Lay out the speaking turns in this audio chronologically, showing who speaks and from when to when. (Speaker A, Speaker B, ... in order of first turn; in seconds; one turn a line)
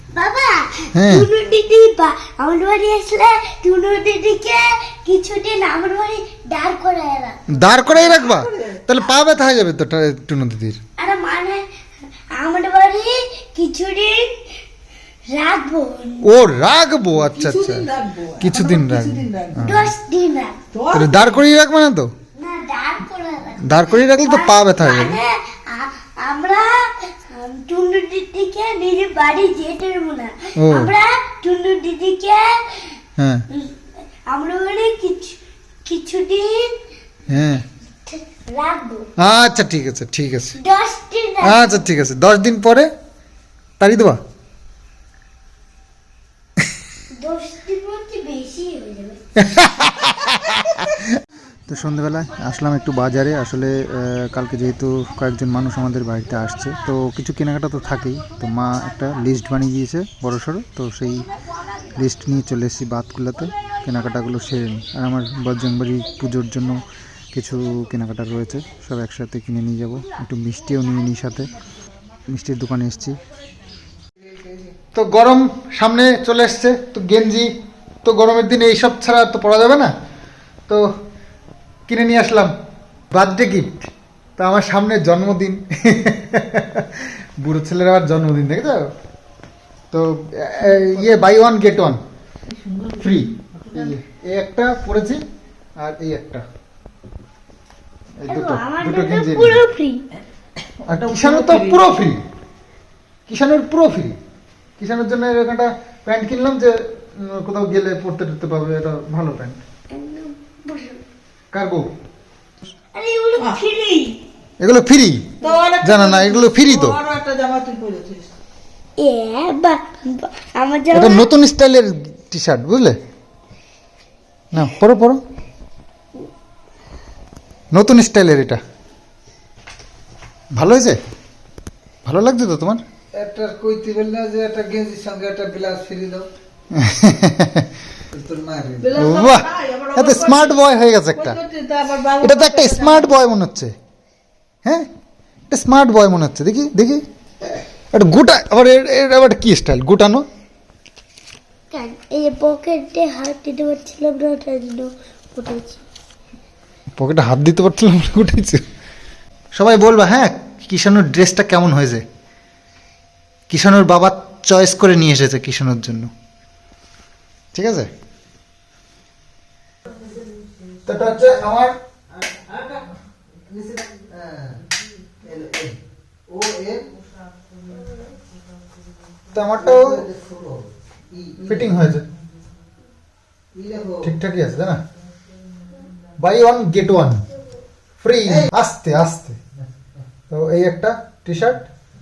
Speaker A: 0.1-7.4
Speaker B: 0.9-1.3
Speaker B: 7.5-10.8
Speaker C: 7.8-8.8
Speaker A: 11.0-11.6
Speaker A: 12.3-14.4
Speaker A: 15.3-16.3
Speaker B: 16.2-17.9
Speaker C: 17.2-19.7
Speaker B: 18.4-19.9
Speaker A: 19.6-20.6
Speaker C: 20.7-21.4
Speaker B: 20.9-22.1
Speaker A: 22.4-33.0
Speaker B: 23.6-25.2
Speaker B: 30.6-30.9
Speaker B: 33.2-33.4
Speaker A: 34.3-36.8
Speaker B: 37.3-37.6
Speaker A: 38.1-39.1
Speaker B: 39.2-40.6
Speaker A: 40.6-41.7
Speaker B: 41.4-42.9
Speaker B: 43.8-44.2
Speaker A: 47.2-49.2
Speaker B: 49.4-51.1
Speaker B: 51.7-61.3
Speaker B: 61.9-71.5
Speaker B: 72.3-73.2
Speaker B: 74.9-77.5
Speaker B: 78.0-79.9
Speaker B: 81.9-82.5
Speaker B: 83.1-88.9
Speaker B: 89.9-92.0
Speaker C: 92.6-93.0
Speaker B: 93.0-95.2
Speaker C: 93.6-93.9
Speaker B: 95.8-96.4
Speaker B: 98.2-99.6
Speaker A: 98.3-100.0
Speaker B: 100.8-102.2
Speaker C: 100.9-101.8
Speaker B: 103.3-104.2
Speaker B: 104.8-109.6
Speaker A: 109.9-111.0
Speaker B: 111.5-111.9
Speaker A: 113.0-114.2
Speaker C: 113.4-113.6
Speaker B: 114.6-115.3
Speaker C: 115.4-118.3
Speaker B: 115.8-117.0
Speaker A: 119.0-121.3
Speaker B: 120.9-123.0
Speaker B: 124.5-125.2
Speaker B: 127.7-128.6
Speaker B: 130.6-131.0
Speaker B: 132.1-132.8
Speaker D: 133.2-136.3
Speaker B: 136.7-137.7
Speaker D: 138.1-138.9
Speaker C: 138.8-140.6
Speaker B: 138.9-141.4
Speaker C: 141.1-143.2
Speaker B: 142.2-143.7
Speaker B: 145.5-147.0
Speaker B: 147.9-150.3
Speaker A: 151.7-155.8
Speaker B: 157.0-158.6
Speaker B: 159.5-162.0
Speaker B: 163.5-166.1
Speaker B: 167.5-167.9
Speaker B: 170.9-171.8
Speaker D: 172.3-172.8
Speaker D: 173.7-174.2
Speaker D: 175.2-175.8
Speaker D: 176.3-176.8
Speaker B: 179.3-180.1
Speaker D: 179.8-180.6
Speaker D: 181.2-181.5
Speaker B: 181.4-182.1
Speaker D: 183.6-184.0
Speaker B: 184.0-184.8
Speaker B: 186.2-187.2
Speaker B: 188.0-189.4
Speaker B: 190.3-191.7